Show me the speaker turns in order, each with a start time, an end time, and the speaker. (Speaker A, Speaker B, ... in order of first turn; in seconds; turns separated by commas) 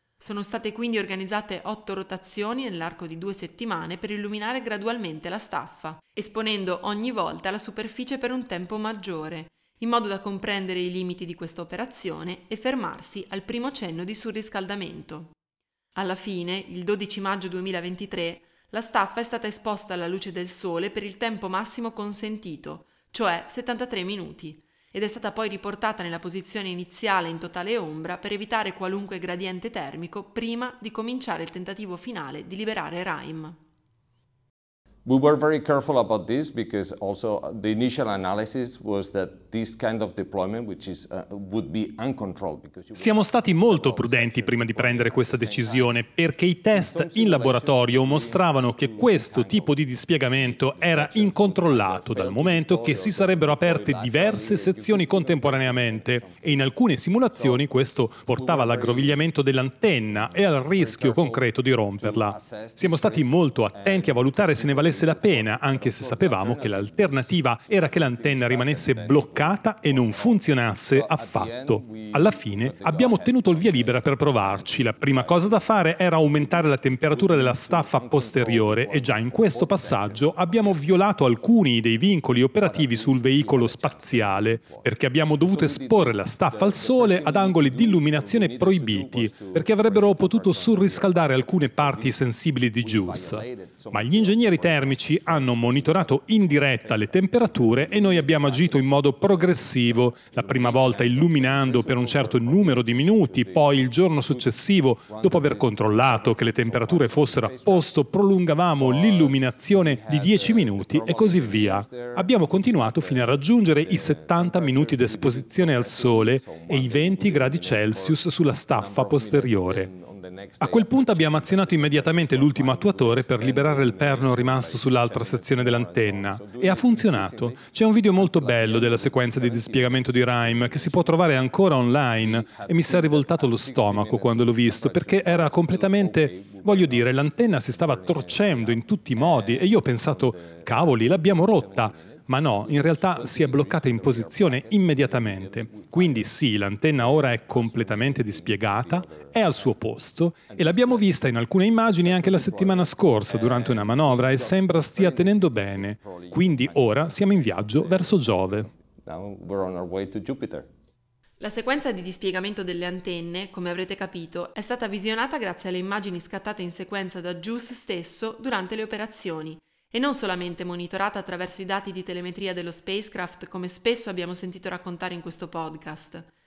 Speaker A: 0.2-15.3, Speaker A: 15.9-33.6, Speaker B: 35.0-45.9, Speaker C: 42.9-119.9, Speaker B: 46.7-56.7, Speaker B: 57.3-59.2, Speaker B: 60.1-81.2, Speaker B: 82.5-108.0, Speaker B: 108.8-146.3, Speaker C: 120.6-158.7, Speaker B: 146.9-149.8, Speaker B: 150.5-160.7, Speaker A: 161.4-176.3